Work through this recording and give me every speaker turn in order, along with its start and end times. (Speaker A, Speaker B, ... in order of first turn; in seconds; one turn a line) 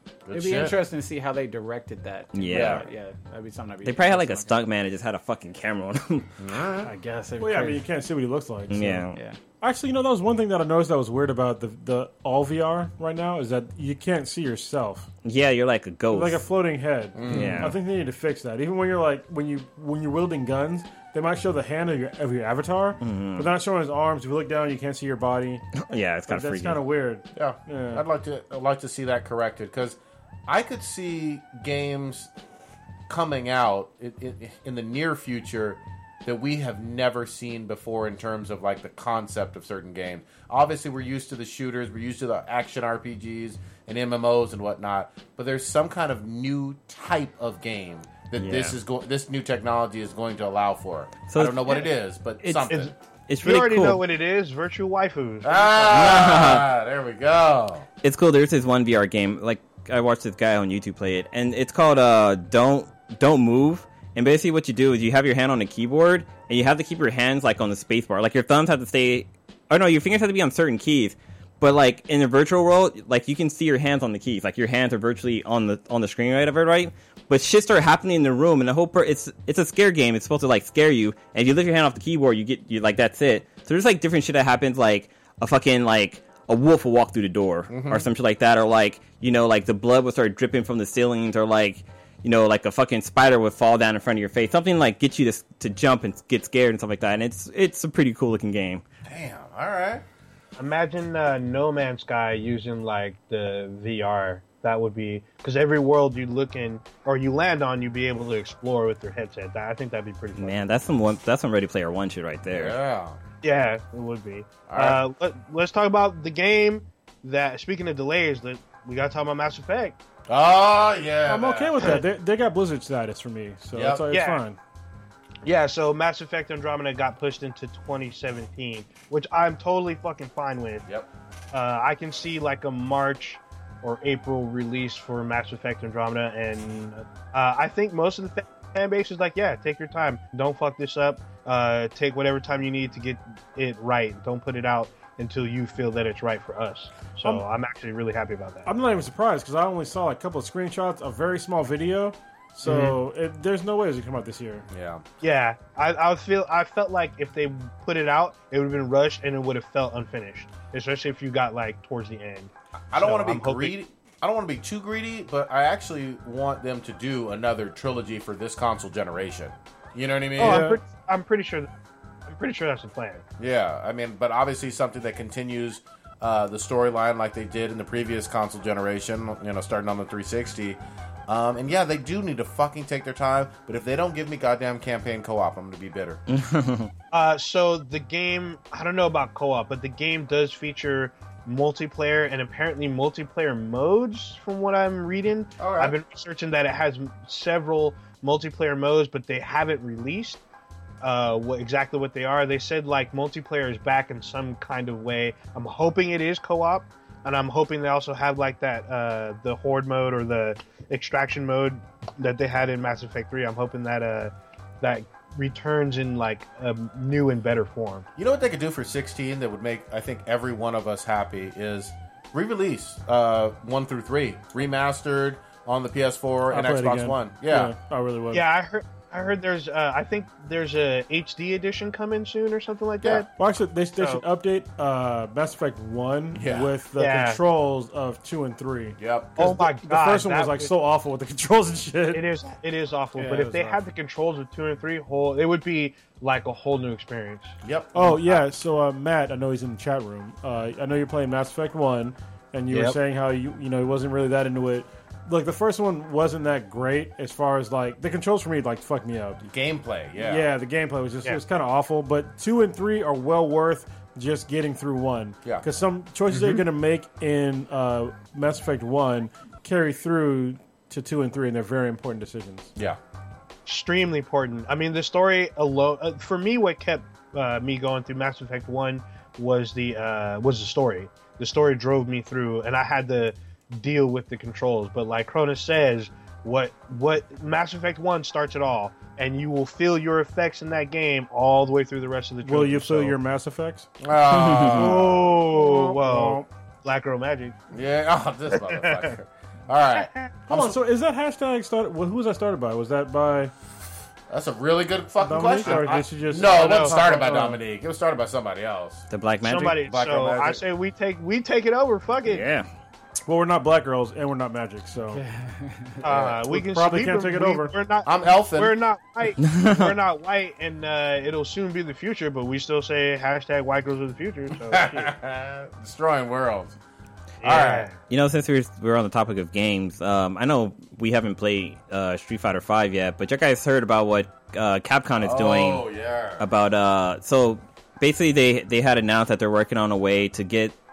Speaker A: 0.2-0.8
Speaker B: 0.3-4.5
Speaker C: 2.3-2.8
Speaker A: 2.5-2.8
Speaker C: 3.8-6.4
Speaker A: 6.4-6.9
Speaker B: 6.8-7.8
Speaker D: 7.4-15.1
Speaker C: 8.7-9.2
Speaker C: 15.2-16.4
Speaker D: 16.1-28.0
Speaker A: 17.1-17.8
Speaker C: 17.3-17.8
Speaker C: 23.0-23.5
Speaker C: 25.8-26.8
Speaker A: 27.3-32.3
Speaker A: 33.1-52.9
Speaker C: 48.3-48.8
Speaker C: 51.3-51.8
Speaker C: 52.4-52.7
Speaker C: 53.3-54.0
Speaker E: 53.4-56.1
Speaker A: 55.4-57.9
Speaker C: 55.9-56.7
Speaker C: 58.0-98.8
Speaker A: 87.7-88.1
Speaker A: 99.0-100.0
Speaker E: 100.6-110.6
Speaker C: 110.3-112.8
Speaker A: 112.5-113.2
Speaker E: 113.4-120.0
Speaker A: 114.7-115.0
Speaker A: 120.3-122.0
Speaker D: 121.2-124.6
Speaker A: 123.7-124.1
Speaker E: 124.1-124.4
Speaker E: 125.4-130.8
Speaker E: 131.5-148.7
Speaker D: 148.6-154.7
Speaker E: 152.6-152.9
Speaker A: 154.7-155.0
Speaker E: 155.2-163.8
Speaker A: 162.9-170.7
Speaker E: 170.4-171.7
Speaker D: 170.4-170.8
Speaker E: 172.2-173.2
Speaker A: 173.4-186.2
Speaker C: 186.3-186.9
Speaker E: 187.1-200.4
Speaker A: 195.6-195.9
Speaker E: 201.0-218.1
Speaker A: 218.2-227.7
Speaker D: 226.5-228.4
Speaker E: 228.3-233.3
Speaker D: 233.3-242.3
Speaker E: 234.0-234.2
Speaker A: 236.3-236.7
Speaker E: 236.9-237.4
Speaker A: 239.0-239.4
Speaker E: 239.3-240.7
Speaker E: 242.1-247.5
Speaker A: 243.2-243.5
Speaker D: 243.3-243.7
Speaker A: 247.6-248.2
Speaker D: 247.9-259.4
Speaker A: 259.4-260.5
Speaker D: 260.2-272.7
Speaker A: 266.3-266.6
Speaker E: 273.6-293.2
Speaker D: 292.4-293.9
Speaker A: 294.0-295.3
Speaker C: 294.3-294.9
Speaker D: 294.7-296.5
Speaker E: 294.9-297.6
Speaker A: 297.7-300.8
Speaker E: 298.5-299.1
Speaker E: 299.9-300.3
Speaker D: 300.5-303.5
Speaker A: 304.3-309.1
Speaker D: 305.2-307.6
Speaker E: 306.3-307.0
Speaker C: 309.1-309.8
Speaker E: 309.4-312.4
Speaker A: 309.8-310.6
Speaker C: 312.2-312.7
Speaker D: 313.2-315.2
Speaker B: 315.1-316.0
Speaker E: 316.0-325.1
Speaker A: 316.0-316.4
Speaker D: 316.5-317.7
Speaker A: 318.0-318.7
Speaker C: 319.5-319.9
Speaker A: 324.6-326.8
Speaker E: 327.4-327.9
Speaker A: 327.4-327.9
Speaker C: 328.1-335.9
Speaker A: 335.2-336.4
Speaker C: 336.4-340.7